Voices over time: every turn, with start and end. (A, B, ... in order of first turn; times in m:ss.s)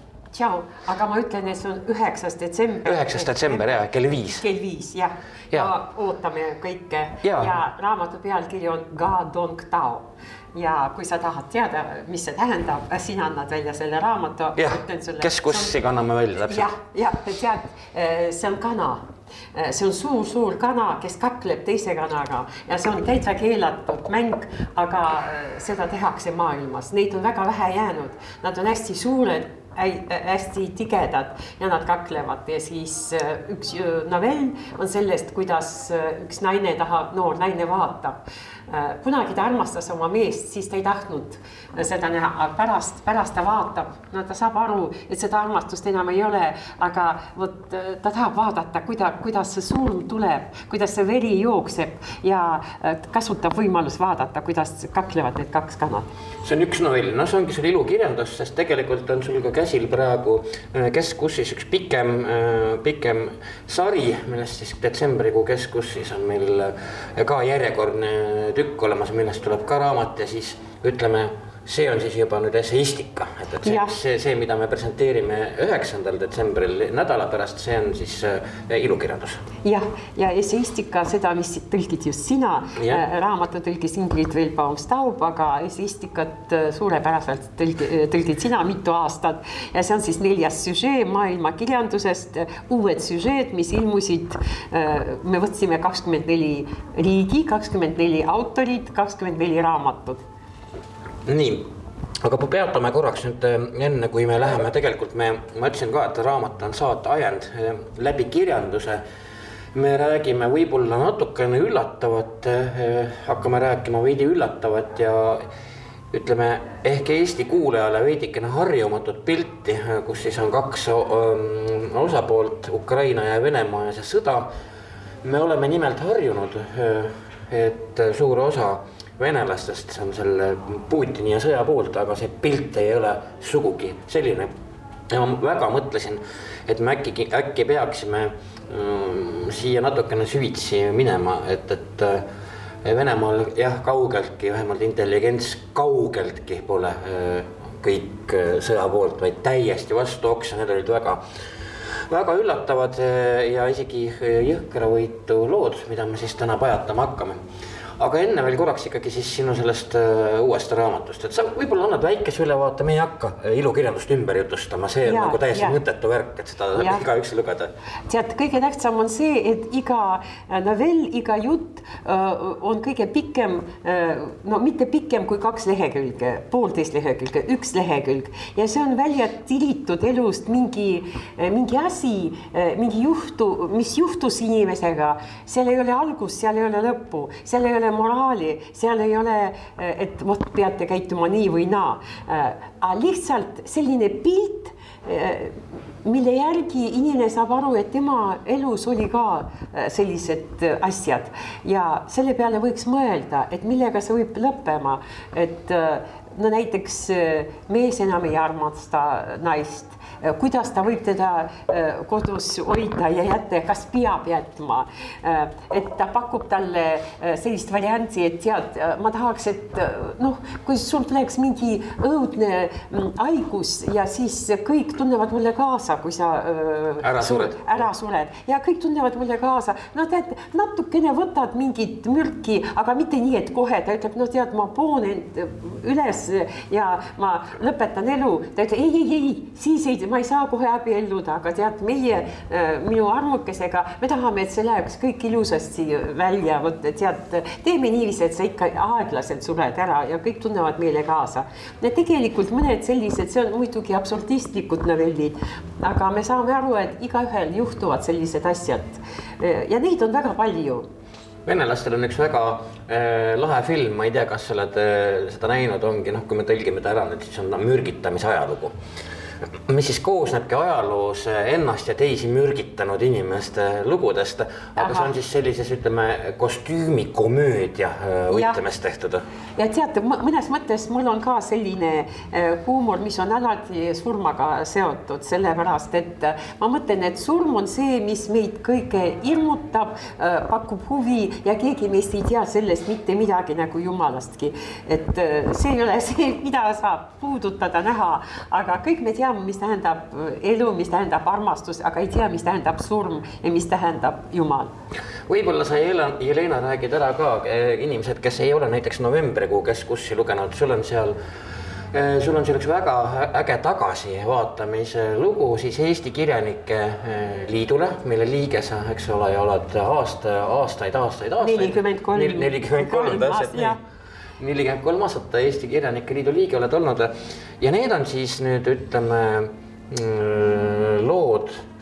0:00.3-0:03.6 A
0:02.8-0:04.4 B
0:04.3-0:15.7 A
0:07.2-0:07.5 B
0:14.6-0:16.7 B
0:16.4-0:38.2 A
0:38.7-0:56.1 A
0:56.4-1:19.4 B
1:13.6-1:14.0 A
1:19.6-1:40.2 A
1:22.8-1:23.0 B
1:41.2-1:41.7 B
1:42.2-1:49.0 B
1:49.7-1:55.4 B
1:56.1-2:04.5 B
2:05.2-2:14.5 B
2:15.1-2:22.2 B
2:22.8-2:31.2 B
2:32.0-2:37.4 B
2:38.0-2:47.7 B
2:45.0-2:45.8 A
2:46.7-2:47.0 A
2:48.1-4:20.8 A
3:47.0-3:47.9 B
4:21.4-4:28.7 B
4:29.6-4:39.2 B
4:34.8-4:35.1 A
4:38.3-4:38.6 A
4:39.6-5:04.7 A
5:05.3-5:11.2 B
5:11.9-5:23.8 B
5:21.4-5:23.8 A
5:24.4-5:31.6 B